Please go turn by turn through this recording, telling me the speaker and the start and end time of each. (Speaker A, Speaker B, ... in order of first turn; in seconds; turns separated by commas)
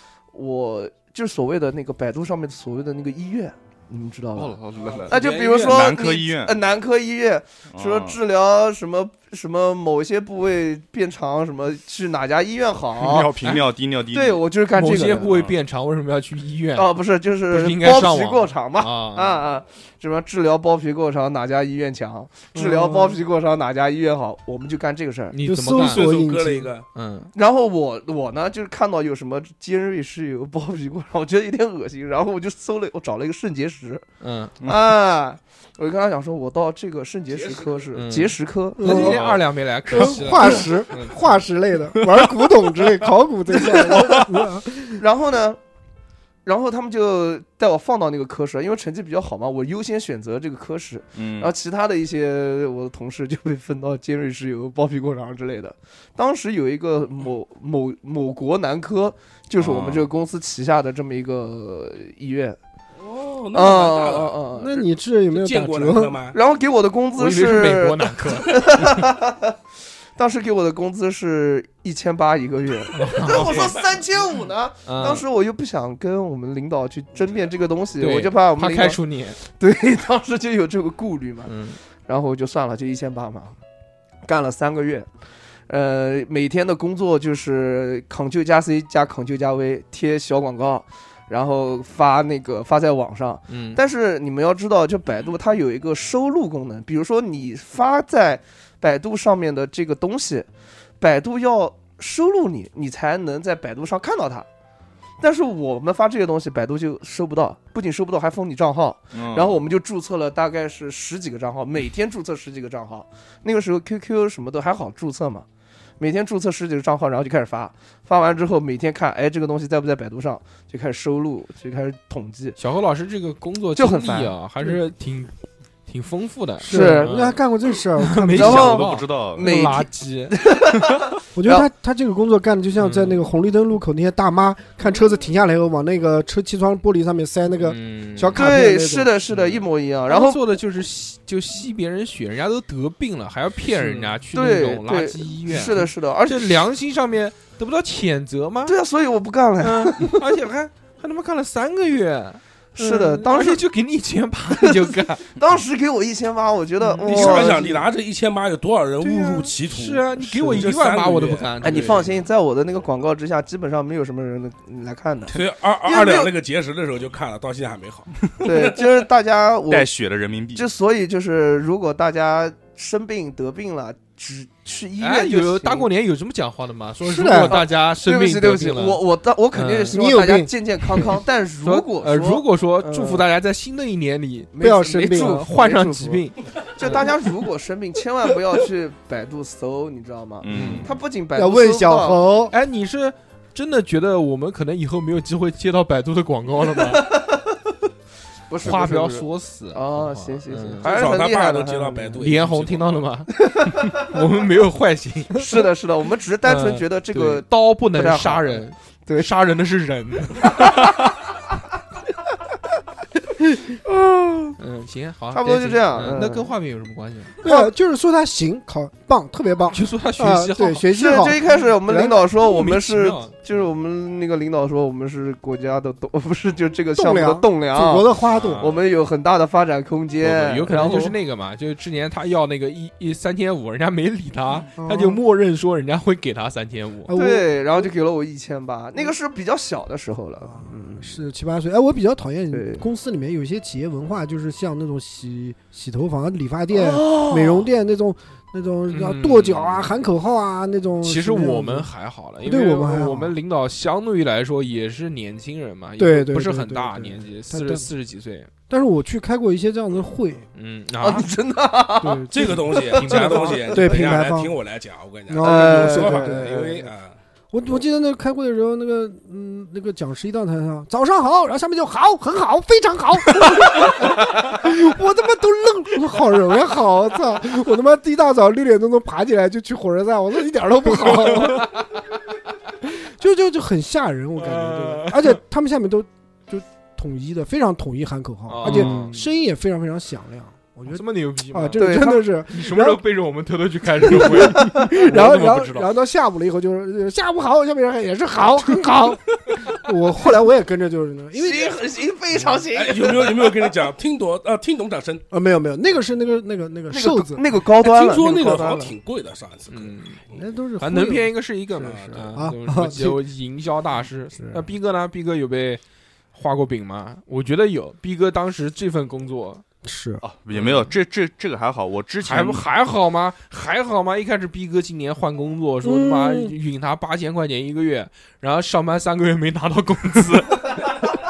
Speaker A: 0.3-13.3, Speaker B: 4.4-6.6, Speaker C: 4.7-5.8, Speaker B: 7.7-8.2, Speaker D: 13.0-13.7, Speaker B: 13.0-14.4, Speaker A: 14.1-15.3, Speaker D: 14.7-19.4, Speaker B: 15.3-15.5, Speaker A: 16.7-25.4, Speaker E: 22.7-23.0, Speaker D: 25.3-26.1, Speaker E: 25.4-26.7, Speaker C: 25.6-26.9, Speaker D: 26.9-27.3, Speaker A: 27.3-34.0, Speaker D: 34.2-34.5, Speaker A: 34.6-39.3, Speaker C: 37.3-38.0, Speaker D: 37.9-41.4, Speaker E: 38.8-39.3, Speaker E: 39.9-45.0, Speaker A: 43.5-44.3, Speaker A: 45.0-45.6, Speaker A: 46.4-62.6, Speaker B: 51.1-51.5, Speaker B: 59.6-60.1, Speaker C: 63.0-64.4, Speaker A: 63.5-64.8, Speaker E: 64.5-66.2, Speaker C: 65.3-66.4, Speaker A: 66.3-69.5, Speaker D: 67.2-68.9, Speaker A: 70.2-81.5, Speaker D: 72.9-73.7, Speaker C: 73.3-74.0, Speaker D: 74.8-75.2, Speaker D: 78.0-79.4, Speaker D: 81.5-81.8, Speaker A: 82.1-83.5, Speaker A: 84.2-85.1, Speaker A: 85.7-100.5, Speaker D: 93.5-93.8, Speaker A: 101.0-104.5, Speaker A: 105.2-115.5, Speaker B: 109.1-109.6, Speaker A: 116.0-122.6, Speaker D: 122.6-125.3, Speaker A: 123.8-124.7, Speaker D: 125.8-127.4, Speaker E: 126.6-128.8, Speaker A: 126.7-127.1, Speaker D: 128.0-130.4, Speaker A: 128.4-131.7, Speaker B: 128.4-129.5, Speaker E: 131.3-139.1, Speaker D: 132.8-133.2, Speaker D: 137.6-138.5, Speaker A: 138.3-140.4, Speaker D: 139.3-148.7, Speaker A: 143.9-146.6, Speaker A: 148.7-150.2, Speaker D: 149.6-155.2, Speaker A: 152.8-153.6, Speaker A: 154.6-157.8, Speaker D: 156.8-157.7, Speaker C: 157.0-162.2, Speaker D: 159.0-162.0, Speaker A: 161.6-166.3, Speaker C: 165.3-168.8, Speaker A: 168.4-169.9, Speaker B: 169.7-170.7, Speaker A: 170.5-175.9, Speaker D: 175.0-180.0, Speaker E: 177.0-177.6, Speaker A: 177.5-183.2, Speaker E: 179.9-181.0, Speaker D: 181.6-187.1, Speaker A: 184.5-192.2, Speaker E: 184.6-185.4, Speaker B: 190.4-191.0, Speaker D: 190.5-190.9, Speaker E: 191.3-192.5, Speaker D: 192.5-197.1, Speaker A: 196.9-197.4, Speaker A: 198.5-202.2, Speaker D: 198.6-200.9, Speaker C: 200.8-203.1, Speaker D: 202.2-205.5, Speaker A: 203.4-204.1, Speaker A: 205.3-209.3, Speaker D: 206.4-211.1, Speaker A: 213.8-214.6, Speaker D: 214.6-217.4, Speaker A: 215.3-216.5, Speaker E: 217.4-222.2, Speaker A: 217.4-217.7, Speaker D: 219.7-221.3, Speaker A: 220.9-231.2, Speaker D: 222.3-223.3, Speaker E: 226.9-228.7, Speaker D: 228.3-228.8, Speaker D: 230.2-237.1, Speaker E: 234.8-235.2, Speaker E: 237.0-237.9, Speaker A: 237.1-241.2, Speaker E: 240.4-251.9, Speaker A: 242.5-242.8, Speaker A: 246.7-247.7, Speaker D: 248.9-249.9, Speaker D: 251.0-258.5, Speaker E: 252.4-253.3, Speaker E: 256.0-257.9, Speaker E: 258.7-260.5, Speaker D: 260.5-261.3, Speaker A: 261.0-263.5, Speaker E: 262.0-264.6, Speaker C: 262.3-267.1, Speaker D: 262.9-264.0, Speaker E: 265.3-266.9, Speaker A: 265.4-266.5, Speaker E: 267.5-281.7, Speaker D: 280.9-281.9, Speaker E: 282.9-293.0, Speaker D: 284.4-285.4, Speaker D: 288.5-289.2, Speaker D: 290.9-295.9, Speaker A: 291.8-292.2, Speaker E: 294.0-301.8, Speaker A: 301.3-303.7, Speaker C: 302.7-305.2, Speaker E: 305.3-307.4, Speaker A: 306.9-308.9, Speaker C: 307.8-310.4, Speaker D: 309.7-310.2, Speaker E: 310.3-313.2, Speaker D: 310.8-315.8, Speaker C: 311.8-312.4, Speaker E: 314.4-314.6, Speaker D: 316.3-319.6, Speaker E: 319.8-320.2, Speaker B: 320.2-322.6, Speaker D: 320.5-320.9, Speaker D: 322.2-330.9, Speaker E: 325.8-326.5